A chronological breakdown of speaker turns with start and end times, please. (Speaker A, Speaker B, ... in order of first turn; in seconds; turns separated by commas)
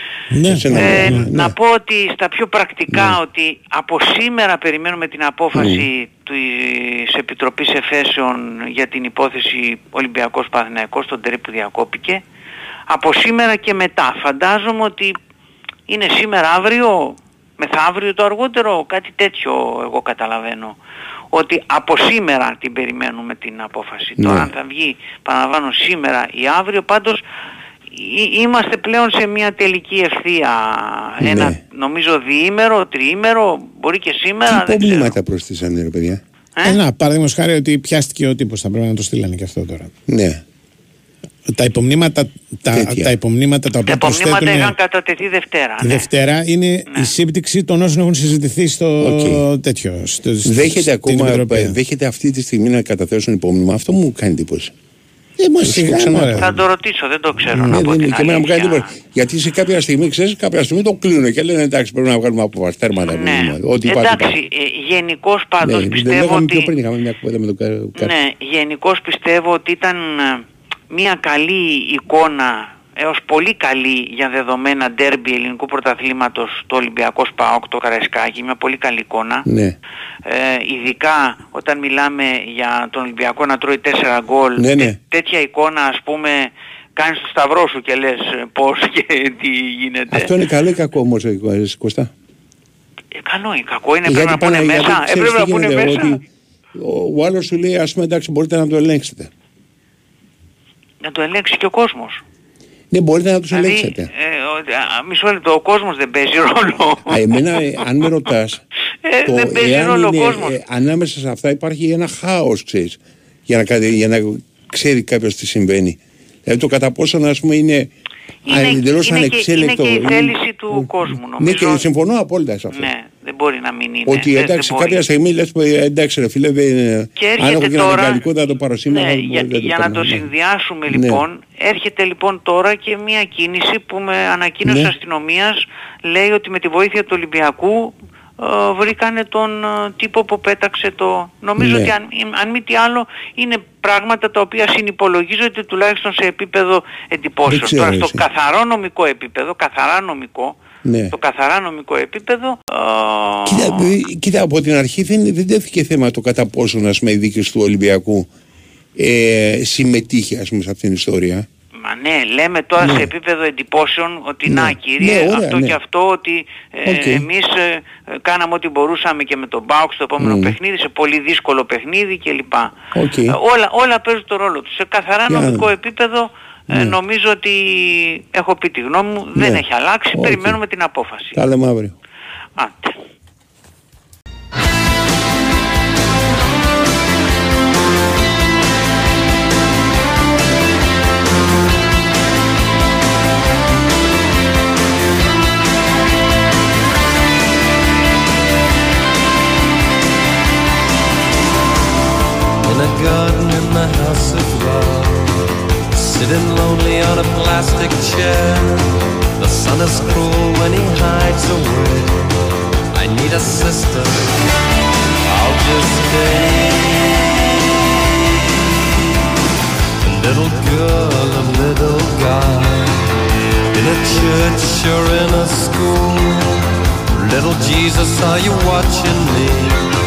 Speaker A: 0.3-1.3, Speaker B: 0.5-1.5, Speaker C: 0.7-12.2, Speaker B: 5.6-5.8, Speaker C: 12.9-15.1, Speaker C: 15.9-20.8, Speaker C: 21.3-27.2, Speaker B: 24.2-24.5, Speaker C: 27.9-35.1, Speaker B: 31.2-31.6, Speaker B: 34.5-36.2, Speaker A: 36.6-39.9, Speaker B: 40.1-40.4, Speaker A: 41.5-44.7, Speaker B: 42.7-43.1, Speaker C: 43.9-46.1, Speaker A: 45.8-51.8, Speaker B: 49.0-49.4, Speaker B: 50.5-54.7, Speaker A: 55.4-56.6, Speaker B: 55.6-56.5, Speaker C: 56.2-58.9, Speaker A: 57.5-57.8, Speaker B: 57.7-64.3, Speaker C: 63.0-66.7, Speaker B: 65.6-68.1, Speaker C: 68.0-79.5, Speaker B: 79.5-79.7, Speaker C: 80.2-90.3, Speaker B: 84.6-85.0, Speaker B: 90.1-92.1, Speaker C: 93.2-96.2, Speaker B: 94.0-96.2, Speaker B: 96.7-99.3, Speaker C: 101.0-102.2, Speaker B: 102.9-104.1, Speaker C: 103.5-107.6, Speaker B: 107.1-108.6, Speaker C: 109.0-110.6, Speaker B: 109.3-117.9, Speaker C: 118.5-121.8, Speaker B: 118.5-122.9, Speaker C: 122.7-125.0, Speaker B: 124.1-130.2, Speaker C: 127.1-128.3, Speaker C: 128.9-150.6, Speaker B: 130.9-131.2, Speaker B: 141.6-141.9, Speaker B: 147.5-148.2, Speaker B: 150.8-151.1, Speaker C: 151.1-153.9, Speaker B: 153.5-158.3, Speaker B: 159.0-161.4, Speaker C: 161.8-172.7, Speaker B: 162.8-163.1, Speaker B: 164.5-165.7, Speaker B: 166.9-167.2, Speaker B: 170.2-170.5, Speaker B: 172.9-173.3, Speaker C: 173.3-181.4, Speaker B: 175.3-175.6, Speaker B: 180.2-180.6, Speaker B: 181.3-181.9, Speaker C: 182.6-182.9, Speaker D: 202.6-205.3, Speaker D: 205.9-212.3, Speaker D: 212.9-214.4, Speaker D: 215.3-217.2, Speaker D: 220.0-223.0, Speaker D: 223.7-229.9